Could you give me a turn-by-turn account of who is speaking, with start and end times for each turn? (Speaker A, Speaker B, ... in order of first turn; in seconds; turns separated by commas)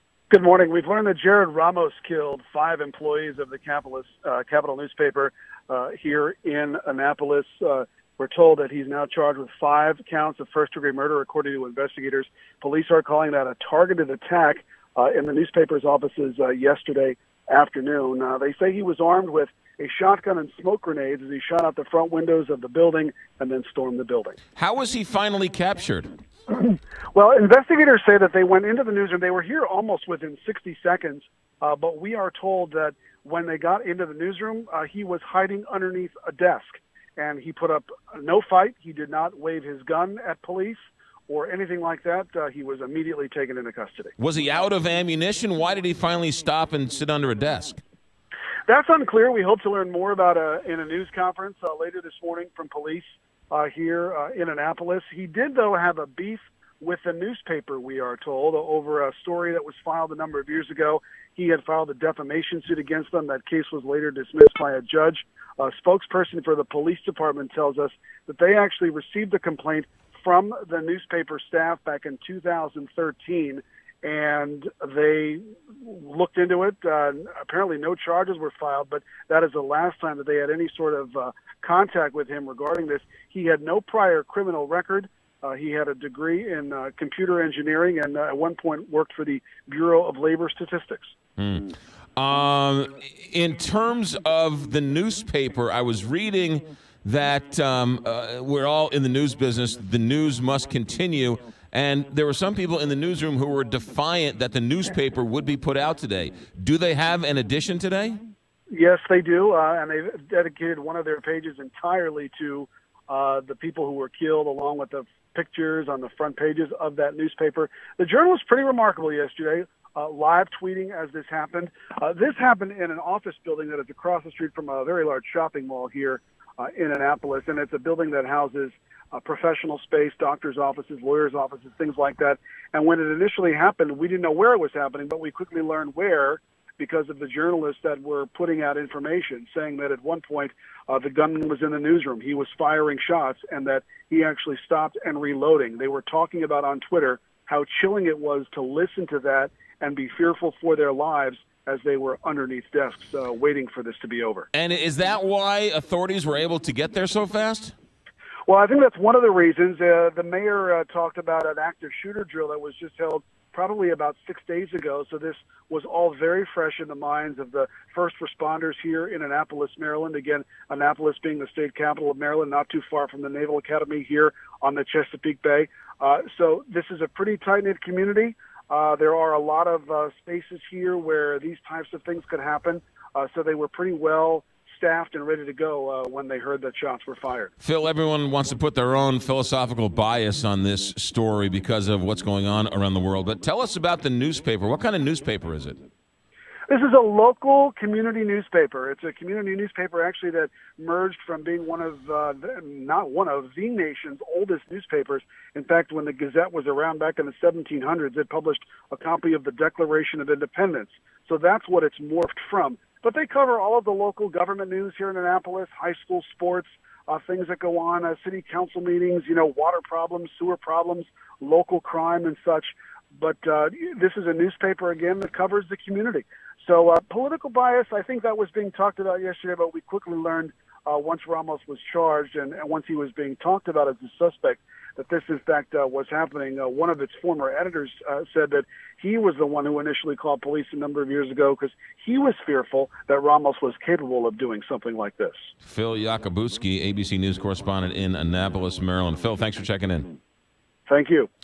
Speaker A: 0.3-24.4, Speaker B: 24.6-26.1, Speaker A: 26.5-44.1, Speaker B: 44.2-47.8, Speaker A: 48.7-91.1, Speaker B: 91.4-108.2, Speaker A: 108.7-154.5, Speaker B: 154.5-157.8, Speaker A: 158.5-187.5, Speaker B: 187.6-195.8, Speaker A: 196.7-245.4, Speaker B: 245.6-250.1, Speaker A: 250.9-251.3